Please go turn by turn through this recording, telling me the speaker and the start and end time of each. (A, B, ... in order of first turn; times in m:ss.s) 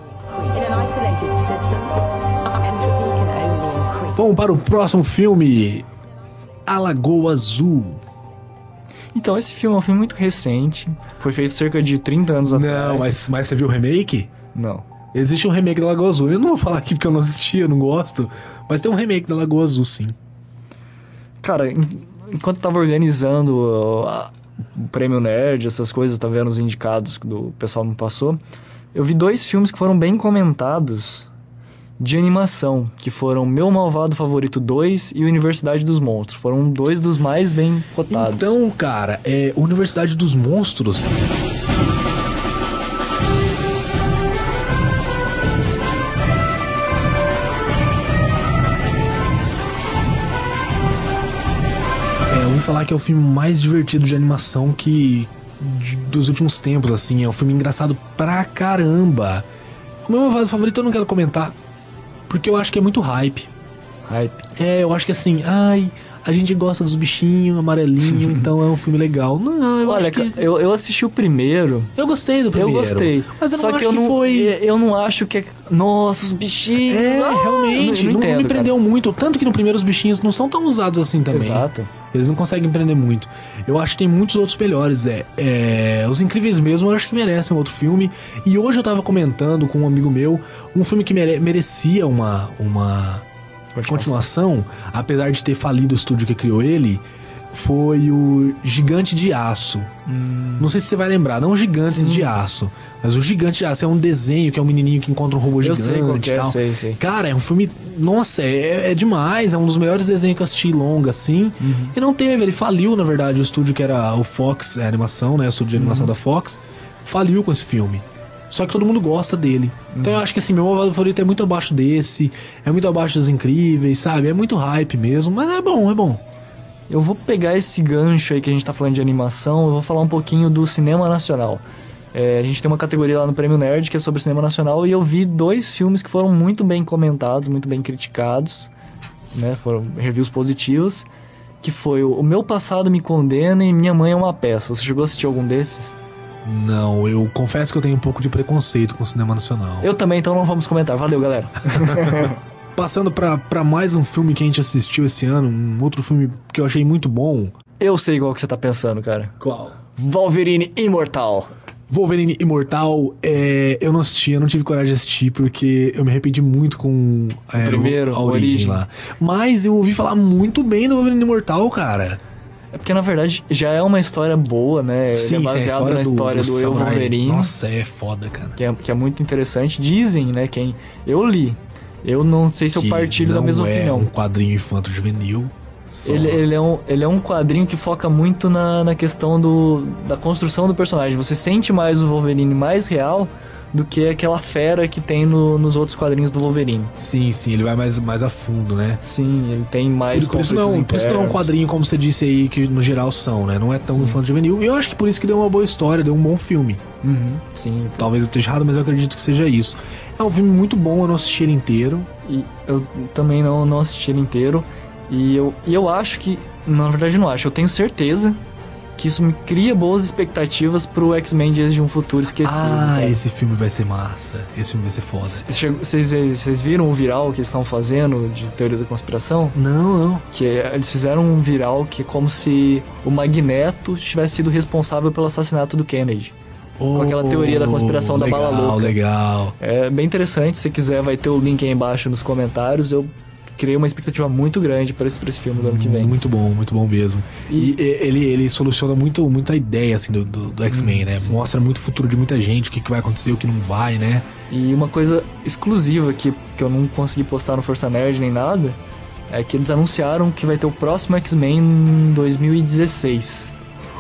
0:00.4-0:04.2 A
0:04.2-0:05.9 B
0:06.6-0:08.0 B
0:09.1-0:13.2 C
0:12.4-0:14.3 B
0:14.5-0:14.9 C
0:15.1-0:20.2 B
0:21.4-0:28.4 C
0:28.9-0:31.3 C
0:32.0-0:38.6 C
0:38.1-0:41.3 B
0:52.3-0:59.5 B
1:00.0-1:01.6 B
1:02.3-1:03.5 B
1:04.1-1:04.5 C
1:04.6-1:10.4 B
1:08.1-1:08.4 C
1:09.8-1:11.9 C
1:12.0-1:14.6 B
1:12.5-1:18.7 C
1:16.8-1:33.3 B
1:21.3-1:21.9 C
1:33.7-1:34.2 C
1:33.9-1:39.9 B
1:40.1-1:40.7 C
1:40.6-2:06.2 B
1:41.9-1:42.3 C
1:45.6-1:47.0 C
1:51.6-1:51.9 C
1:55.8-1:56.1 C
1:59.9-2:00.2 C
2:06.9-2:11.6 C
2:12.1-2:18.7 C
2:19.3-2:21.1 C
2:21.6-2:26.0 C
2:26.4-2:29.9 B
2:29.8-2:32.4 C
2:31.7-2:37.5 B
2:37.8-2:39.4 C
2:39.4-2:39.8 B
2:39.9-2:41.5 C
2:41.9-2:52.2 B
2:47.6-2:48.8 C
2:52.7-2:57.6 C
2:55.2-2:58.6 B
2:58.6-3:04.1 C
3:02.7-3:06.4 B
3:06.0-3:16.9 C
3:17.0-3:19.0 B
3:19.0-3:21.5 C
3:20.1-3:26.8 B
3:23.9-3:24.2 C
3:27.0-3:28.1 C
3:28.0-3:32.1 B
3:32.2-3:38.4 C
3:39.0-3:43.2 C
3:42.4-3:45.5 B
3:45.2-3:49.6 C
3:49.6-3:50.3 B
3:50.3-3:56.3 C
3:56.8-3:59.6 B
3:56.9-3:59.0 C
3:59.6-4:06.2 C
4:05.6-4:14.3 B
4:07.5-4:07.8 C
4:10.7-4:11.4 C
4:14.5-4:18.8 C
4:19.3-4:23.5 C